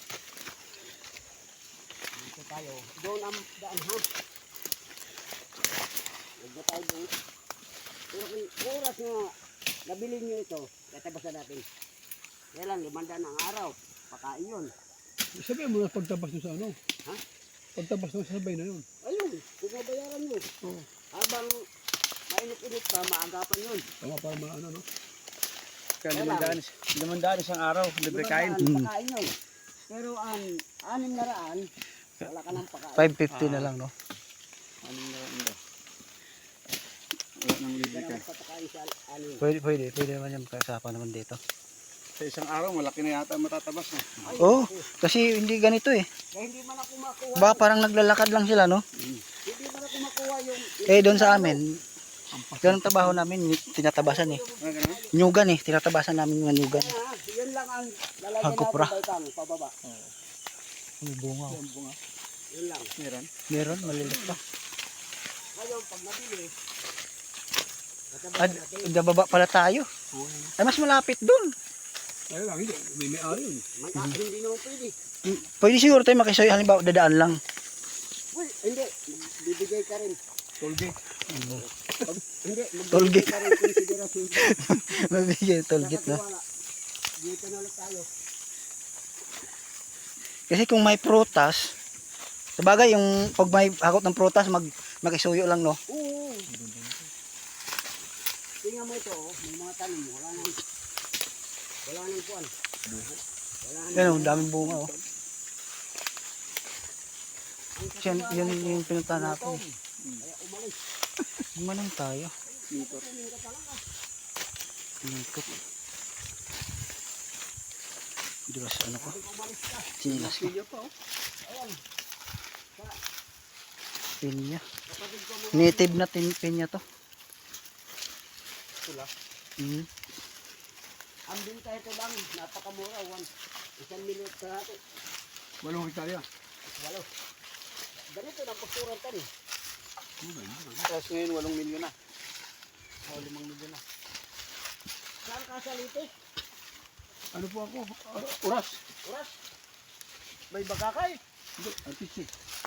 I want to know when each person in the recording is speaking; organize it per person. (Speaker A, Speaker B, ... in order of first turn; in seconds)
Speaker A: 2.1-4.0, 6.4-7.1, 8.1-9.3, 9.9-11.6, 12.5-14.7, 19.0-20.4, 21.1-21.5, 22.3-23.8, 26.1-26.6, 28.0-29.3, 29.9-31.6, 32.2-33.1, 37.9-39.4, 44.2-44.9, 46.3-47.6, 49.5-51.6, 54.0-55.4, 56.7-59.7, 62.5-62.9, 65.5-66.5, 68.1-69.0, 73.8-74.9, 78.3-80.2, 81.5-84.5, 85.8-86.4, 87.2-88.1, 95.9-96.5, 98.6-100.5, 101.8-102.5, 103.6-104.5, 107.8-110.7, 112.5-113.8, 119.0-119.9, 121.4-121.8, 124.9-126.0, 131.3-133.3, 133.8-134.8, 136.8-137.1, 138.1-139.3, 145.2-146.1, 149.0-149.3, 150.5-151.2
Speaker B: 15.3-16.8, 17.8-18.9, 24.0-24.8, 52.3-53.4, 63.6-64.4, 70.1-70.5, 72.3-73.6, 80.6-81.0, 96.5-97.1, 102.8-103.2, 104.4-105.0, 120.1-120.9, 135.6-136.2, 140.2-140.9, 147.3-148.8, 151.6-152.3
Speaker C: 26.0-28.6, 33.3-33.7, 34.8-35.6, 37.4-38.2, 42.2-44.4, 54.6-55.0, 61.5-62.0, 63.0-63.3, 140.8-141.9, 143.1-143.8
Speaker D: 28.6-28.9, 33.0-33.9, 39.4-41.4, 44.4-46.0, 47.4-48.8, 50.9-51.8, 52.6-54.4, 55.1-56.9, 58.4-58.9, 61.0-61.6, 63.5-64.4, 68.4-69.9, 70.6-71.5, 75.2-77.4, 81.3-81.6, 82.9-83.5, 84.4-86.2, 90.5-91.7, 92.6-95.8, 103.9-104.9, 108.0-109.6, 111.5-112.3, 115.0-115.5, 118.5-119.2, 120.0-120.5, 124.2-124.6, 125.5-126.8, 129.6-129.9